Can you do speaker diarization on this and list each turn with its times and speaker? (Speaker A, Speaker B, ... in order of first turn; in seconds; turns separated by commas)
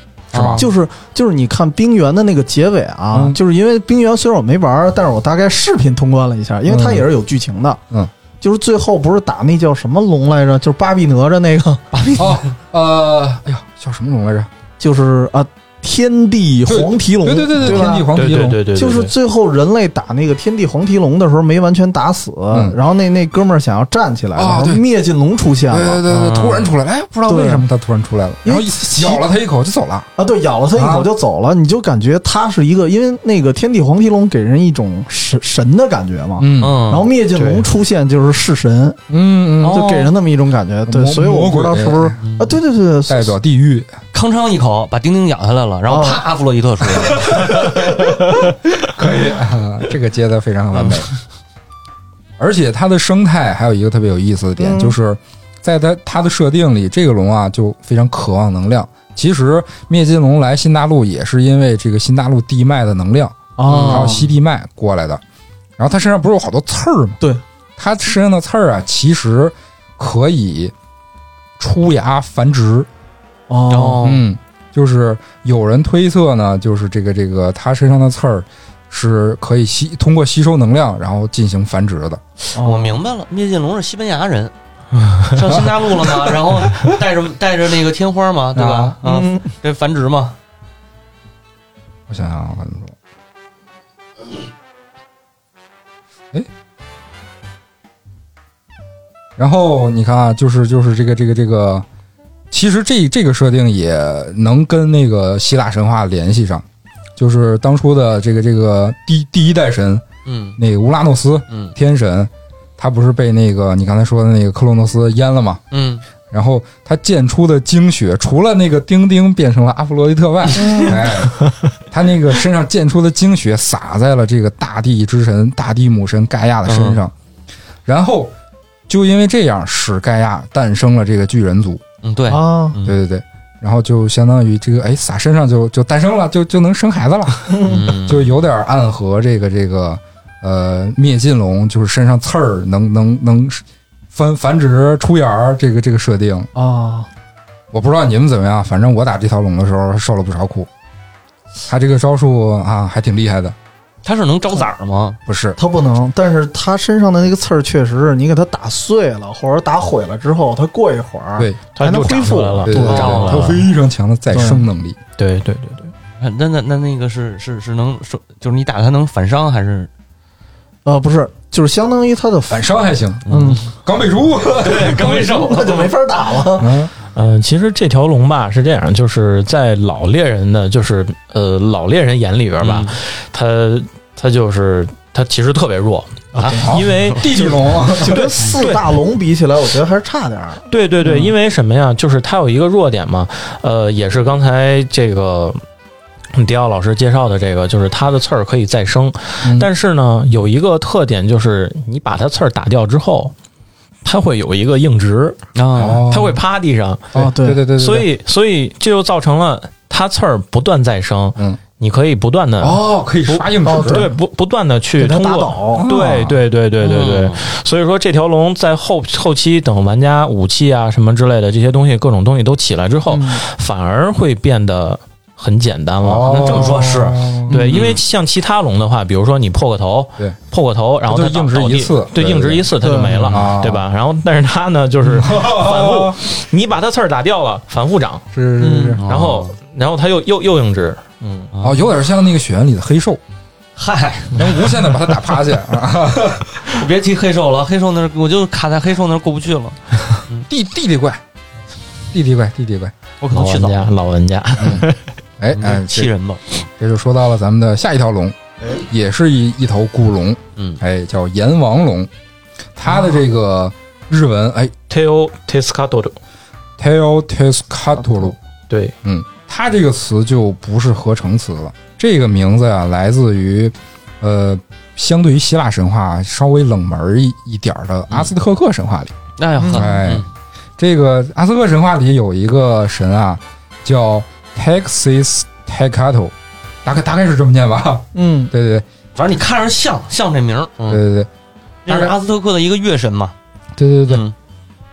Speaker A: 0.3-0.7, Speaker B: 0.3-0.7, Speaker C: 0.5-7.8, Speaker B: 3.1-3.4, Speaker B: 6.7-7.0, Speaker C: 8.4-11.8, Speaker A: 11.9-12.5, Speaker B: 12.2-14.5, Speaker C: 14.8-18.1, Speaker B: 16.7-18.6, Speaker D: 18.1-19.1, Speaker C: 18.7-26.0, Speaker B: 22.5-22.8, Speaker B: 24.4-24.8, Speaker B: 25.7-30.1, Speaker A: 26.1-26.7, Speaker C: 27.3-27.6, Speaker C: 28.4-29.2, Speaker C: 30.2-39.0, Speaker B: 30.7-31.1, Speaker B: 36.4-36.8, Speaker A: 36.6-37.1, Speaker D: 37.3-37.6, Speaker B: 39.1-39.9, Speaker A: 39.6-40.1, Speaker C: 39.6-43.3, Speaker B: 40.9-42.2, Speaker A: 42.2-42.6, Speaker B: 43.1-43.9, Speaker A: 44.1-48.0, Speaker C: 45.9-46.2, Speaker C: 47.1-48.1, Speaker B: 48.9-51.1, Speaker A: 50.7-51.1, Speaker B: 52.4-65.2, Speaker C: 54.6-55.0, Speaker C: 63.5-64.3, Speaker A: 63.7-64.3, Speaker B: 65.8-67.2, Speaker B: 67.8-70.7, Speaker B: 71.6-72.9, Speaker C: 73.5-74.0, Speaker A: 73.7-74.2, Speaker B: 74.0-82.2, Speaker C: 82.5-83.0, Speaker A: 82.5-84.5, Speaker D: 85.0-85.3, Speaker A: 85.2-90.3, Speaker B: 85.5-86.9, Speaker B: 88.5-89.0, Speaker C: 89.0-89.4, Speaker B: 92.1-92.9, Speaker B: 99.4-101.8, Speaker B: 102.5-106.6, Speaker B: 107.2-110.0, Speaker A: 110.2-110.6, Speaker B: 110.6-115.6, Speaker A: 111.5-111.7, Speaker A: 115.7-116.0, Speaker B: 116.3-127.1, Speaker A: 120.5-120.9, Speaker C: 120.5-121.1, Speaker A: 126.7-127.0, Speaker B: 127.8-128.3, Speaker B: 128.9-131.8, Speaker A: 132.0-133.0, Speaker C: 132.3-132.8, Speaker B: 132.8-146.5, Speaker C: 137.5-137.9, Speaker A: 137.6-138.2, Speaker C: 146.5-147.1, Speaker B: 147.7-150.7, Speaker B: 151.7-153.5, Speaker A: 154.0-155.2, Speaker B: 155.2-155.6, Speaker C: 155.6-163.3, Speaker D: 161.8-163.6, Speaker B: 162.6-165.0, Speaker A: 162.7-163.6, Speaker C: 164.3-164.6, Speaker D: 165.2-165.9, Speaker A: 166.2-169.9, Speaker C: 170.8-172.7, Speaker B: 172.5-175.2, Speaker A: 173.3-173.6, Speaker C: 173.3-173.7, Speaker A: 174.5-175.9, Speaker C: 174.8-176.8, Speaker B: 176.6-176.9, Speaker D: 177.1-187.5, Speaker A: 182.6-182.9, Speaker C: 186.4-186.7, Speaker B: 186.6-188.3, Speaker C: 187.3-191.3, Speaker D: 188.6-188.8, Speaker D: 190.7-195.6, Speaker D: 196.3-203.3, Speaker B: 199.4-199.7, Speaker D: 204.0-207.1, Speaker A: 205.5-206.0, Speaker B: 205.8-206.4, Speaker B: 207.1-208.1, Speaker C: 207.1-207.6, Speaker D: 207.7-226.7, Speaker B: 212.6-214.1, Speaker C: 213.6-214.1, Speaker C: 215.0-215.8, Speaker B: 215.8-216.4, Speaker A: 216.8-217.4, Speaker C: 223.1-223.4, Speaker B: 226.0-227.5, Speaker A: 226.2-228.0, Speaker C: 227.5-227.8, Speaker D: 227.5-238.3, Speaker B: 231.1-233.8, Speaker C: 232.8-233.4, Speaker B: 235.0-236.2, Speaker B: 238.3-239.0, Speaker C: 238.6-239.0, Speaker A: 239.0-239.6, Speaker D: 239.1-241.5, Speaker A: 241.5-241.9, Speaker B: 241.6-243.2, Speaker A: 243.8-244.7, Speaker B: 244.3-246.5, Speaker A: 246.6-250.5, Speaker B: 250.5-251.2, Speaker B: 252.1-252.9, Speaker A: 253.2-253.8, Speaker D: 253.3-255.1, Speaker B: 254.6-254.8, Speaker B: 255.4-256.1, Speaker A: 255.5-256.6, Speaker B: 256.8-262.1, Speaker A: 260.6-260.8, Speaker B: 262.8-264.7, Speaker D: 264.9-266.1, Speaker B: 266.8-268.4, Speaker D: 268.7-268.9, Speaker B: 269.0-279.1, Speaker A: 279.4-280.3, Speaker C: 279.6-279.9, Speaker B: 279.7-280.2, Speaker B: 280.8-288.8, Speaker C: 288.1-288.5, Speaker A: 289.1-291.0, Speaker B: 290.9-291.3, Speaker A: 291.9-293.3, Speaker B: 291.9-292.1, Speaker B: 293.8-294.2, Speaker A: 294.1-294.3